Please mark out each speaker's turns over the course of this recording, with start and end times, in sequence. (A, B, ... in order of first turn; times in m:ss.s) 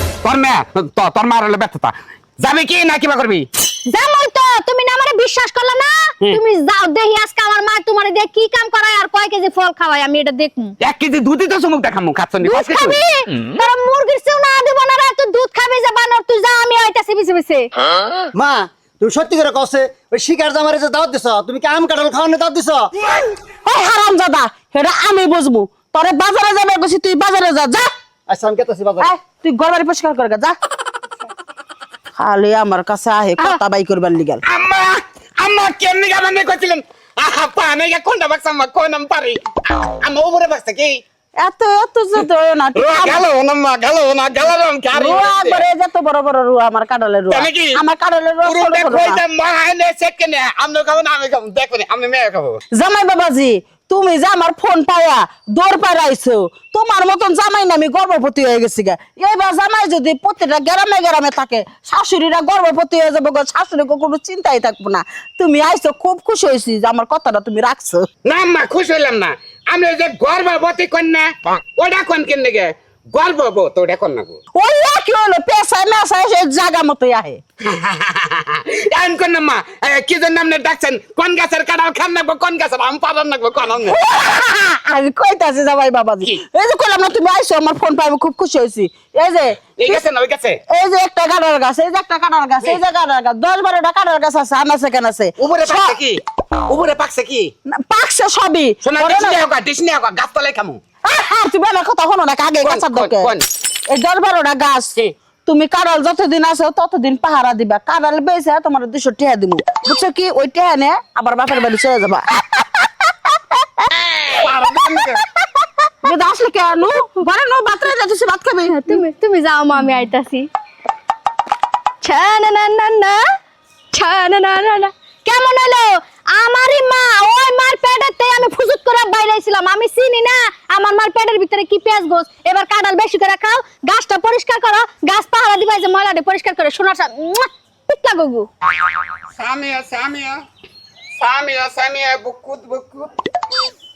0:00.2-0:03.5 A
0:03.9-0:10.7 B
0:10.8-0:13.0 A
0:12.4-0:17.7 B
0:18.3-0:22.9 C
0:23.6-0:27.9 D
0:28.3-0:29.1 C
0:29.0-0:30.6 D
0:32.2-0:34.4 D
0:34.4-0:41.0 A
0:41.4-0:43.2 D
0:42.8-0:45.6 A
0:44.9-0:49.2 D
0:47.3-0:47.8 A
0:48.4-0:52.6 A
0:52.7-1:08.1 D
1:08.2-1:14.4 A
1:14.6-1:17.4 D
1:17.7-1:24.0 A
1:23.8-1:30.0 D
1:29.8-1:30.6 A
1:30.7-1:36.0 D
1:35.4-1:37.5 A
1:37.7-1:39.4 D
1:38.8-1:40.8 A
1:41.0-1:43.3 D
1:42.6-1:43.4 A
1:43.9-1:52.6 D
1:54.3-1:55.2 A
1:56.0-1:59.0 D
1:58.7-2:00.5 B
2:02.0-2:03.2 B
2:03.9-2:18.5 B
2:19.4-2:20.4 A
2:21.2-2:23.1 A